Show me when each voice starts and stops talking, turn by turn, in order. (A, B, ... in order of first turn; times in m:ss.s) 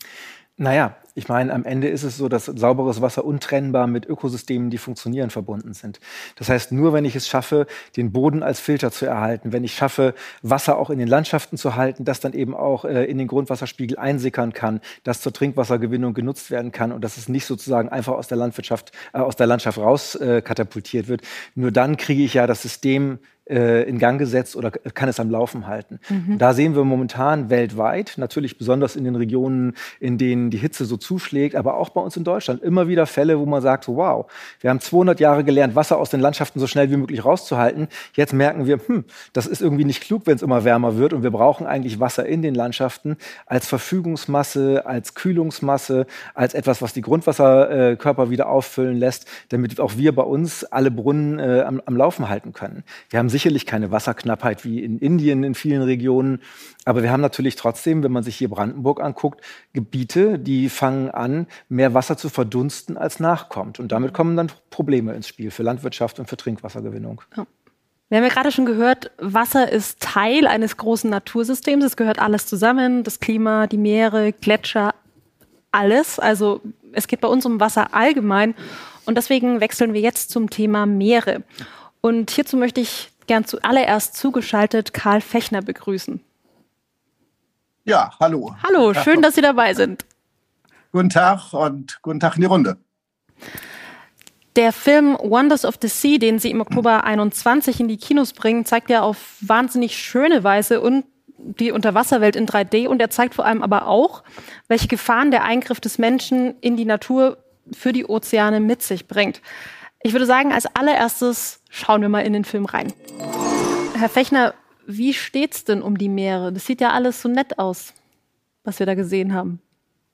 0:00.6-1:07.2 A
0:26.1-0:26.4 B
1:08.1-1:14.9 B
1:15.7-1:21.4 B
1:22.0-1:26.2 B
1:27.9-1:29.1 C
1:28.6-1:30.0 B
1:30.9-1:32.8 C
1:34.6-1:49.4 B
1:50.0-1:52.9 B
1:53.9-1:57.9 B
1:58.6-1:59.6 B